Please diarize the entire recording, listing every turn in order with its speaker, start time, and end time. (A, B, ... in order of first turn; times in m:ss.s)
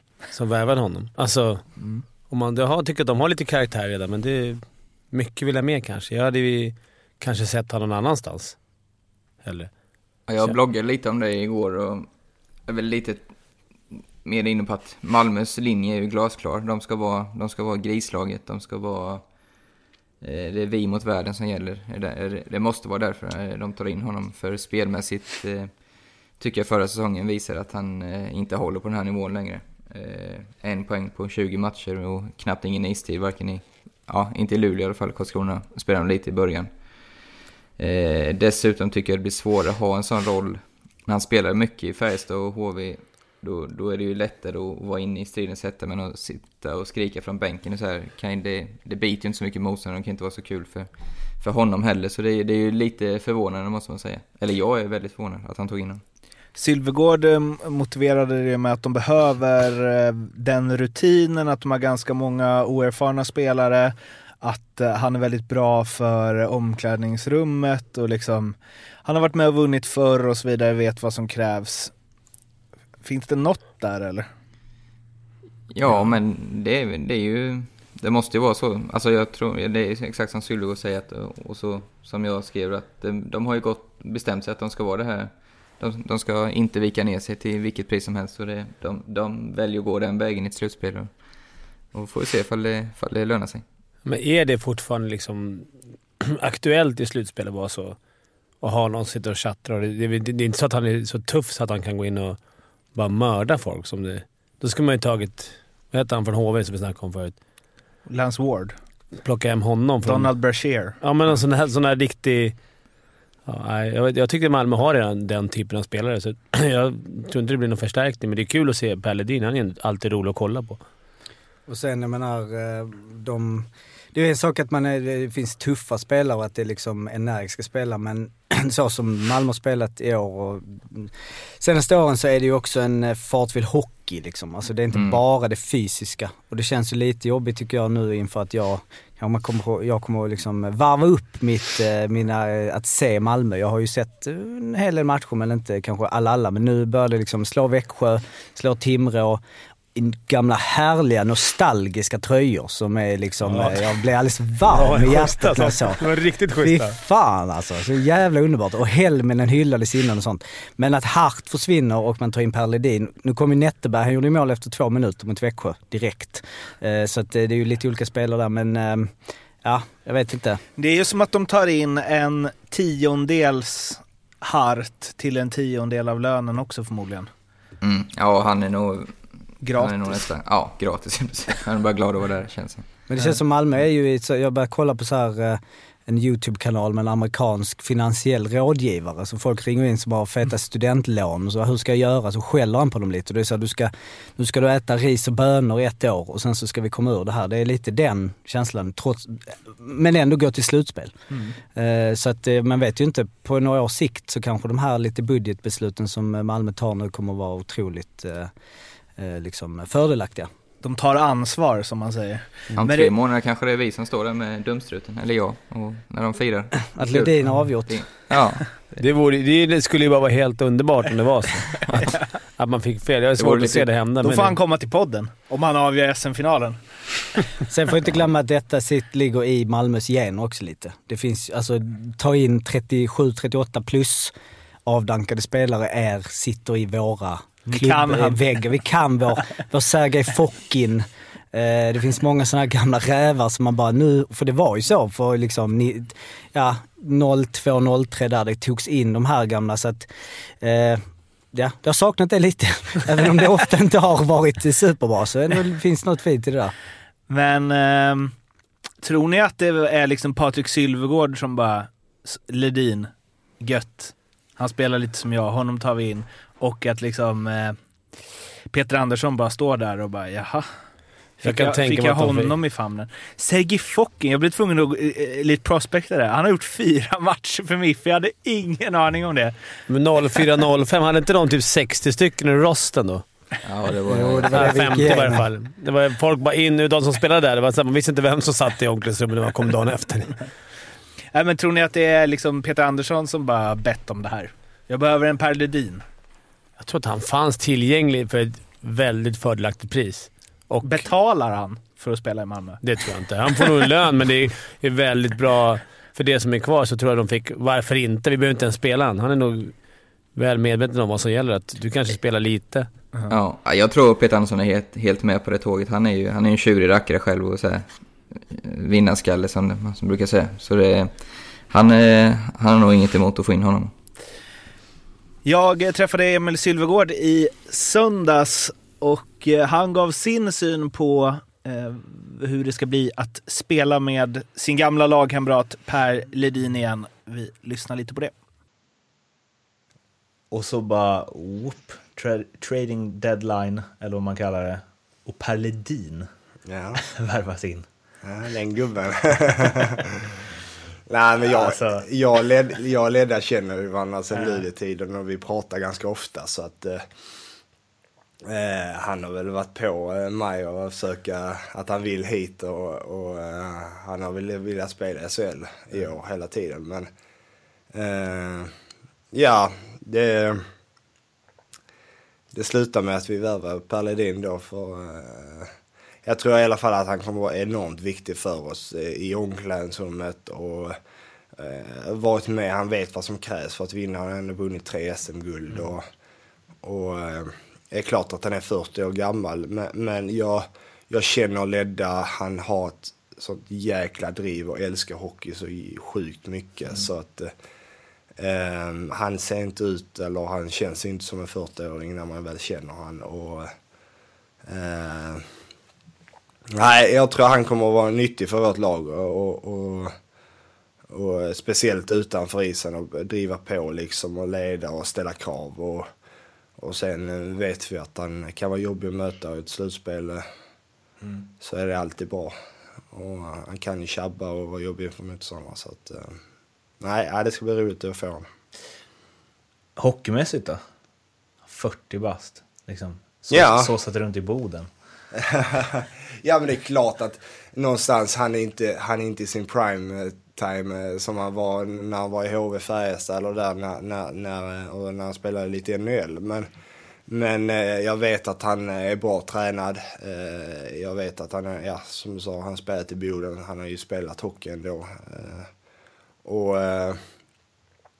0:00.3-0:01.7 A
0:02.3-0:08.6 A
0:09.4-0:09.7 A
0:10.3-0:12.1 B
0:12.7-0:13.3 B
0:13.9-0:19.3 B
0:20.2-0:25.8 B
0:26.4-0:36.8 B
0:37.8-0:56.0 B
0:56.6-1:11.9 C
1:13.0-1:14.3 C
1:15.7-1:31.2 B
1:31.9-1:33.6 B
1:34.0-1:35.7 A
1:36.2-1:38.0 A
1:38.6-1:42.4 A
1:42.9-1:47.4 A
1:48.1-1:48.8 C
1:49.2-1:50.3 A
1:50.0-1:51.0 C
1:51.0-1:52.6 A
1:53.5-2:00.8 A
2:01.7-2:29.4 D
2:14.9-2:15.2 B
2:30.0-2:36.0 D
2:33.5-2:33.9 A
2:34.7-2:37.0 A
2:36.6-2:50.6 D
2:50.8-2:57.3 C
2:57.8-3:02.8 B
2:59.6-3:00.2 C
3:03.1-3:21.2 D
3:21.7-3:28.5 D
3:29.2-3:30.5 D
3:30.8-3:33.1 C
3:32.8-3:39.0 B
3:37.0-3:38.0 D
3:39.0-3:41.8 A
3:41.8-3:42.2 B
3:42.6-3:44.6 A
3:43.4-3:43.9 B
3:44.2-3:46.8 C
3:47.7-3:54.3 D
3:54.9-4:10.1 D
3:57.7-3:58.6 C
4:10.6-4:16.7 D
4:17.3-4:18.3 C
4:19.0-4:27.8 C
4:28.7-4:30.7 C
4:31.4-4:39.6 C
4:31.4-4:32.5 A
4:39.9-4:43.2 A
4:43.6-4:44.8 B
4:44.1-4:45.4 D
4:44.5-4:50.5 A
4:51.3-4:56.0 C
4:56.8-5:01.0 A
5:00.8-5:02.8 C
5:02.8-5:09.8 A
5:10.4-5:12.9 A
5:13.3-5:23.9 B
5:25.4-5:38.3 C
5:40.5-5:46.3 C
5:46.7-5:47.0 E
5:47.0-5:47.9 C
5:48.2-5:50.3 E
5:51.1-5:57.1 E
5:51.5-5:52.0 C
5:54.3-5:54.6 C
5:58.5-6:07.1 E
6:07.9-6:08.7 E
6:09.3-6:10.6 E
6:12.5-6:15.7 E
6:16.2-6:21.0 E
6:21.6-6:26.1 E
6:26.8-6:37.5 E
6:38.4-6:43.7 E
6:44.6-6:45.4 E
6:46.7-6:50.1 E
6:51.1-6:56.1 E
6:56.8-7:00.5 E
7:01.6-7:02.6 E
7:03.1-7:06.4 E
7:07.0-7:08.5 E
7:10.0-7:10.8 C
7:11.7-7:14.9 C
7:13.5-7:13.9 E
7:15.4-7:26.7 E
7:27.3-7:35.7 E
7:36.4-7:37.2 E